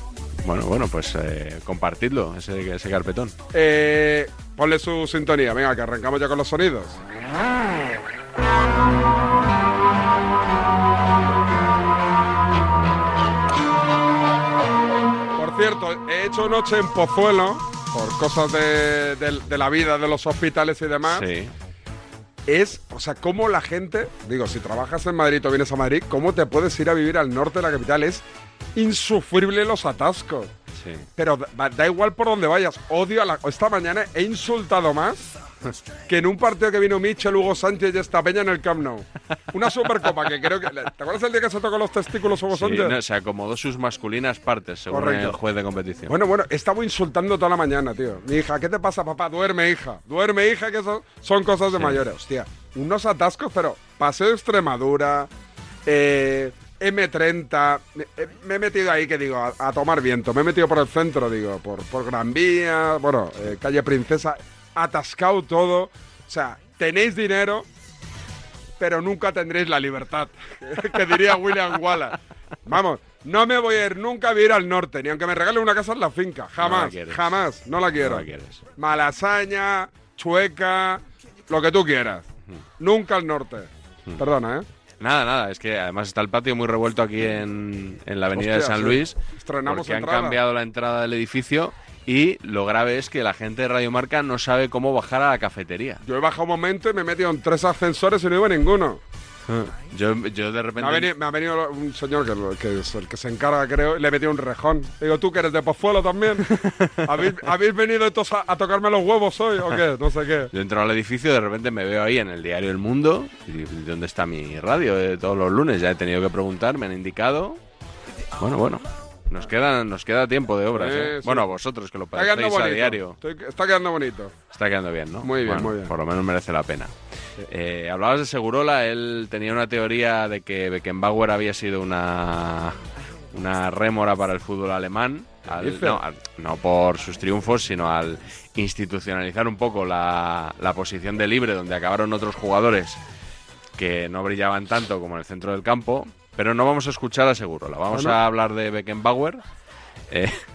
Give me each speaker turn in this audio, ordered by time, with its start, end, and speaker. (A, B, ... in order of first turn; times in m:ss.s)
0:00.4-0:03.4 A
0:03.5-0:06.9 B
0:15.4-0:21.2 B
0:21.0-0:21.5 A
0:22.5-0:28.2 B
0:28.8-0:30.5 B
0:30.7-0:31.1 A
0:31.2-0:35.3 B
0:36.1-0:42.9 B
0:40.1-0:40.3 A
0:42.5-0:46.2 A
0:44.9-0:45.4 B
0:46.1-0:55.3 B
0:51.7-0:52.0 A
0:55.8-1:07.6 B
1:08.8-1:22.3 B
1:16.6-1:17.4 A
1:17.9-1:18.6 A
1:22.8-1:24.6 B
1:25.0-1:36.0 A
1:28.3-1:30.4 B
1:36.0-1:39.0 B
1:39.5-1:41.1 A
1:40.8-1:46.5 B
1:46.6-1:47.2 A
1:47.0-1:50.5 B
1:50.5-1:57.6 A
1:58.4-2:03.2 A
2:00.7-2:01.5 B
2:02.1-2:04.3 B
2:04.5-2:06.9 A
2:05.2-2:05.9 B
2:07.5-2:12.8 A
2:13.3-2:23.0 A
2:15.5-2:16.0 B
2:23.8-2:29.4 A
2:27.9-2:28.2 B
2:30.1-2:30.4 A